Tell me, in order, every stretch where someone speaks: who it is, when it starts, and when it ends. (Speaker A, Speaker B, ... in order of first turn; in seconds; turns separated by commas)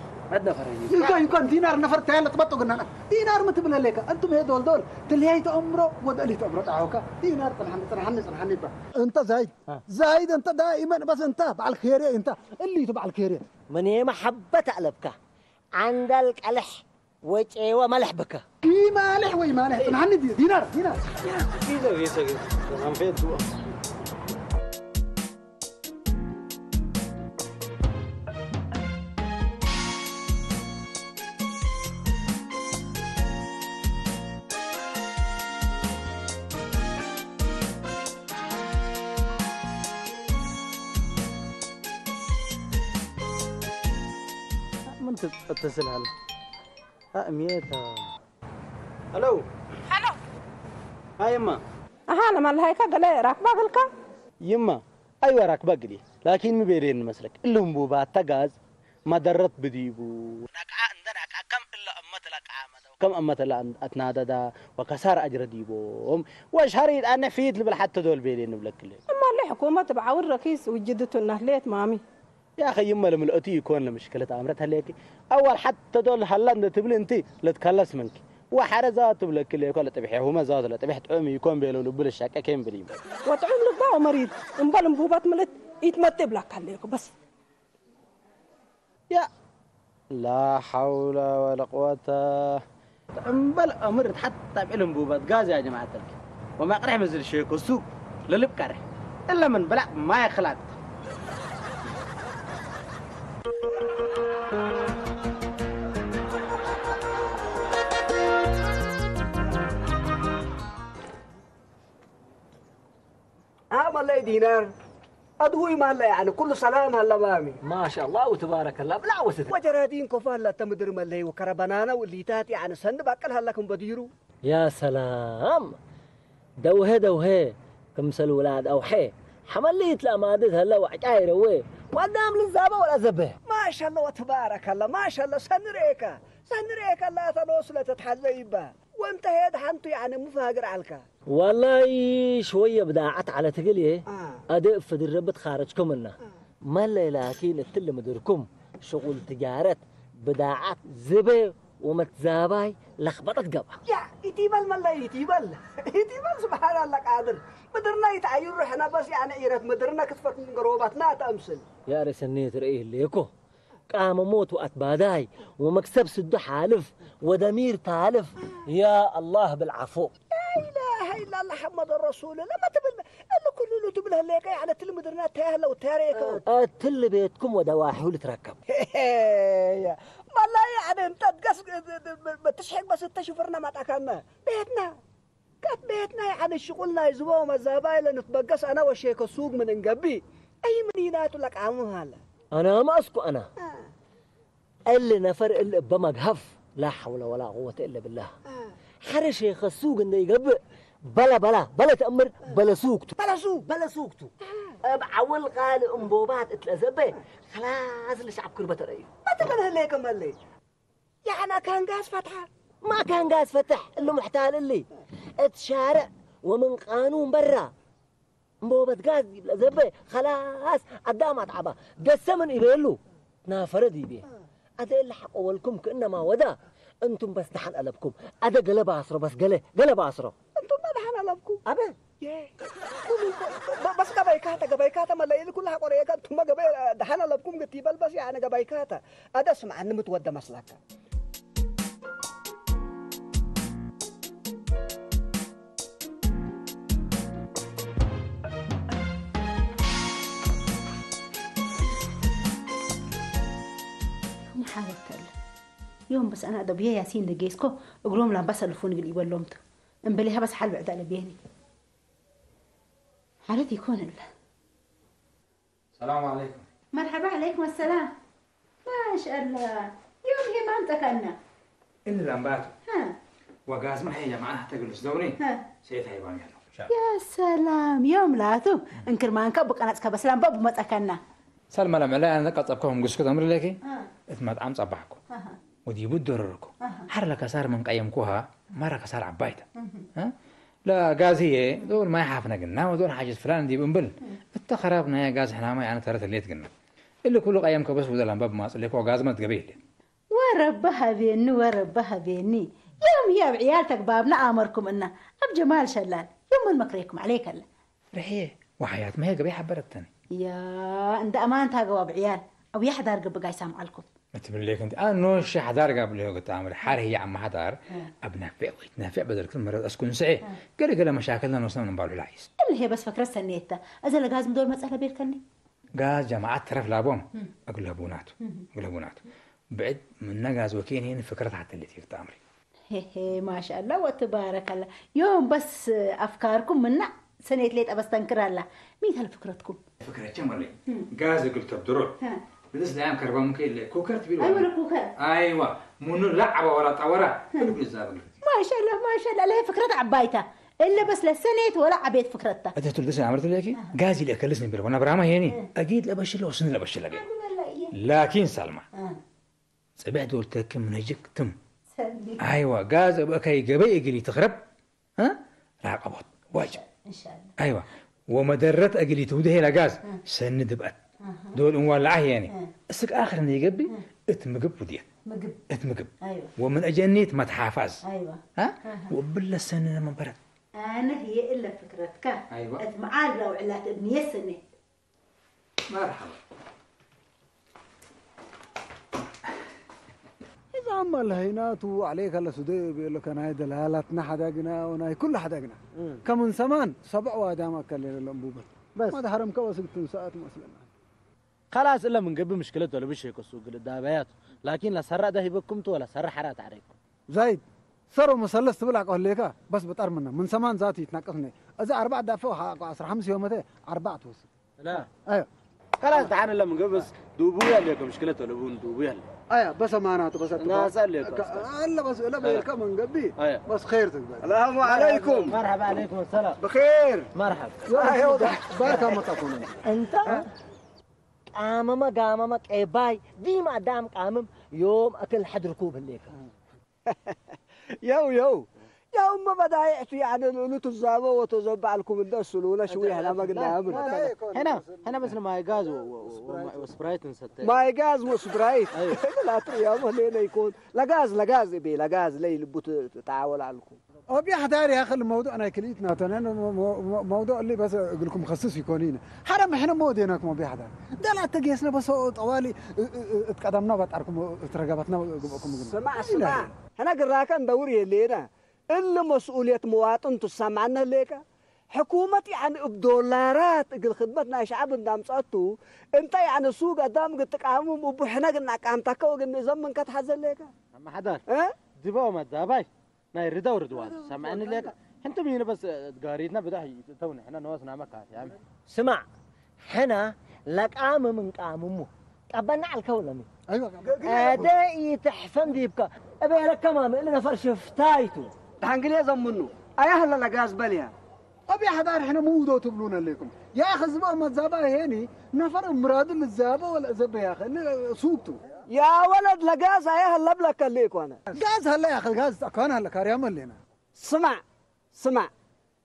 Speaker A: 0.3-1.1, Speaker B: 0.9-13.4, Speaker C: 13.7-15.2, Speaker C: 15.8-18.4, Speaker B: 18.6-21.0, Speaker A: 21.2-23.5, Speaker A: 44.9-46.1, Speaker A: 47.1-48.1, Speaker A: 49.1-49.5, Speaker D: 49.9-50.2, Speaker A: 51.2-51.6, Speaker D: 52.1-53.9, Speaker A: 54.5-58.5, Speaker A: 59.1-69.0, Speaker D: 69.1-72.0, Speaker A: 72.6-83.0, Speaker D: 83.3-87.1, Speaker A: 90.1-92.6, Speaker A: 93.2-100.8, Speaker E: 113.7-114.7, Speaker E: 115.4-117.6, Speaker C: 117.6-119.6, Speaker E: 119.5-124.1, Speaker C: 124.5-125.8, Speaker C: 126.6-133.4, Speaker E: 133.5-141.1, Speaker C: 141.3-153.8, Speaker E: 144.1-144.4, Speaker E: 153.9-161.7, Speaker C: 161.9-163.3, Speaker C: 163.9-170.1, Speaker E: 170.3-176.4, Speaker C: 176.2-178.6, Speaker E: 178.7-185.0, Speaker E: 185.6-192.2, Speaker C: 192.5-193.5, Speaker E: 193.6-193.9, Speaker C: 194.9-198.3, Speaker C: 199.1-204.3, Speaker E: 203.2-203.7, Speaker E: 204.5-204.8, Speaker C: 204.8-209.1, Speaker E: 209.3-210.4, Speaker E: 211.2-212.5, Speaker C: 212.8-214.9, Speaker C: 215.4-217.7, Speaker C: 218.6-224.3, Speaker C: 224.8-230.3, Speaker E: 230.6-231.6, Speaker C: 231.7-232.0, Speaker E: 232.2-232.5, Speaker E: 233.1-240.8, Speaker F: 254.5-255.3, Speaker F: 256.1-261.4, Speaker F: 263.5-264.3, Speaker G: 266.0-266.6, Speaker F: 266.9-268.1, Speaker F: 268.9-271.4, Speaker G: 272.1-272.7, Speaker F: 272.9-273.2, Speaker G: 273.7-276.9, Speaker F: 275.4-275.6, Speaker F: 276.9-281.2, Speaker G: 281.7-285.2, Speaker G: 285.9-290.4, Speaker F: 289.8-290.1, Speaker G: 290.9-296.7, Speaker G: 297.2-299.8, Speaker F: 300.3-307.6, Speaker G: 308.1-310.1, Speaker F: 310.4-314.1, Speaker G: 314.3-322.5, Speaker F: 322.6-325.4, Speaker G: 326.0-332.4, Speaker F: 332.9-339.8, Speaker G: 340.0-342.2, Speaker G: 342.7-348.3, Speaker F: 344.4-345.1, Speaker F: 348.4-352.7, Speaker G: 352.8-357.2, Speaker F: 357.1-357.9, Speaker G: 357.9-358.9, Speaker F: 358.9-359.2, Speaker G: 360.0-361.6, Speaker F: 361.9-362.4, Speaker G: 362.4-364.6, Speaker G: 365.2-366.8, Speaker F: 366.7-367.5, Speaker G: 367.6-371.0, Speaker F: 371.3-371.5, Speaker G: 371.5-375.1, Speaker F: 375.3-375.6, Speaker G: 375.7-378.0, Speaker F: 376.2-376.5, Speaker F: 378.0-379.1, Speaker G: 378.6-380.4, Speaker F: 380.8-384.6, Speaker G: 382.5-382.8, Speaker G: 385.9-386.4, Speaker B: 390.7-400.9, Speaker A: 401.7-406.9, Speaker B: 407.3-415.5, Speaker A: 414.8-415.1, Speaker A: 416.0-419.2, Speaker B: 419.5-424.5, Speaker A: 420.6-421.7, Speaker E: 424.4-425.6, Speaker A: 424.8-426.6, Speaker E: 426.6-427.3, Speaker A: 427.4-427.9, Speaker B: 427.9-429.8, Speaker E: 428.0-429.2, Speaker C: 429.9-430.5, Speaker C: 431.6-436.3, Speaker E: 437.1-437.4, Speaker E: 438.0-444.3, Speaker A: 442.9-447.8, Speaker B: 443.9-446.9, Speaker E: 447.6-454.0, Speaker A: 448.9-449.2, Speaker B: 454.3-466.7, Speaker E: 465.9-480.7, Speaker A: 480.9-481.4, Speaker E: 481.5-481.8, Speaker A: 482.0-488.6, Speaker C: 488.9-489.3, Speaker C: 489.8-493.5, Speaker B: 493.7-494.7, Speaker E: 494.0-494.7, Speaker C: 494.2-498.5, Speaker E: 498.8-501.1, Speaker B: 501.7-508.6, Speaker E: 508.9-511.4, Speaker B: 511.5-513.8, Speaker E: 514.2-514.6, Speaker E: 515.1-515.5